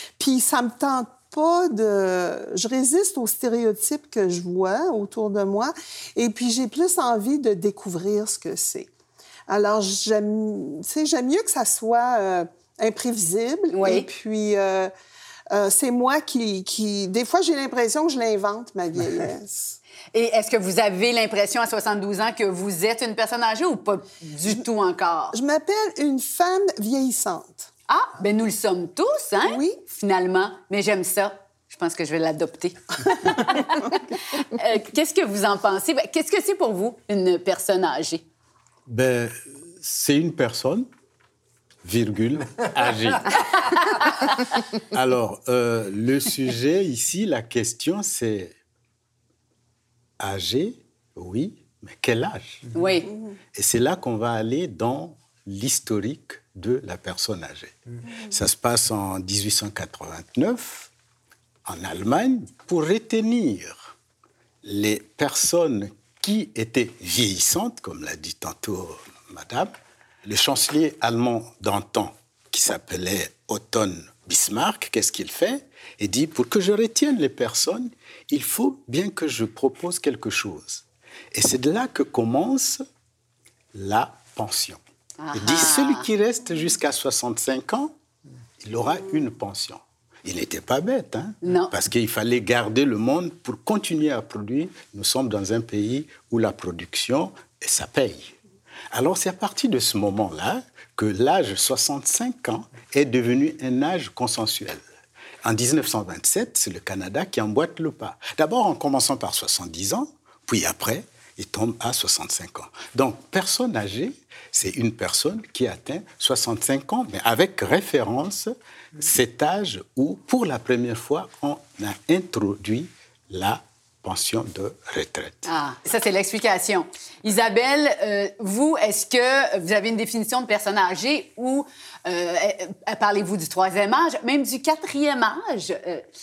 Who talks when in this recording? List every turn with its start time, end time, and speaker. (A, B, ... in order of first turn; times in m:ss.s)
0:00.2-0:08.9 A
0:09.5-0:14.9 A
0:13.7-0:14.1 B
0:15.5-0:19.8 A
0:20.1-0:25.4 B
0:25.3-0:27.7 A
0:27.9-0:38.2 B
0:29.4-0:29.8 A
0:38.9-0:40.8 C
0:41.8-0:44.3 C
0:44.9-0:48.5 C
0:50.2-0:52.7 C
0:52.7-0:53.1 B
0:53.5-0:57.7 C
0:58.3-1:00.9 C
1:01.6-1:03.9 C
1:04.6-1:09.7 C
1:10.2-1:22.8 C
1:23.7-1:24.8 C
1:25.2-1:26.1 B
1:25.3-1:27.9 C
1:28.6-1:38.3 C
1:31.4-1:31.7 B
1:38.9-1:44.8 C
1:45.4-2:05.5 C
2:05.4-2:16.0 B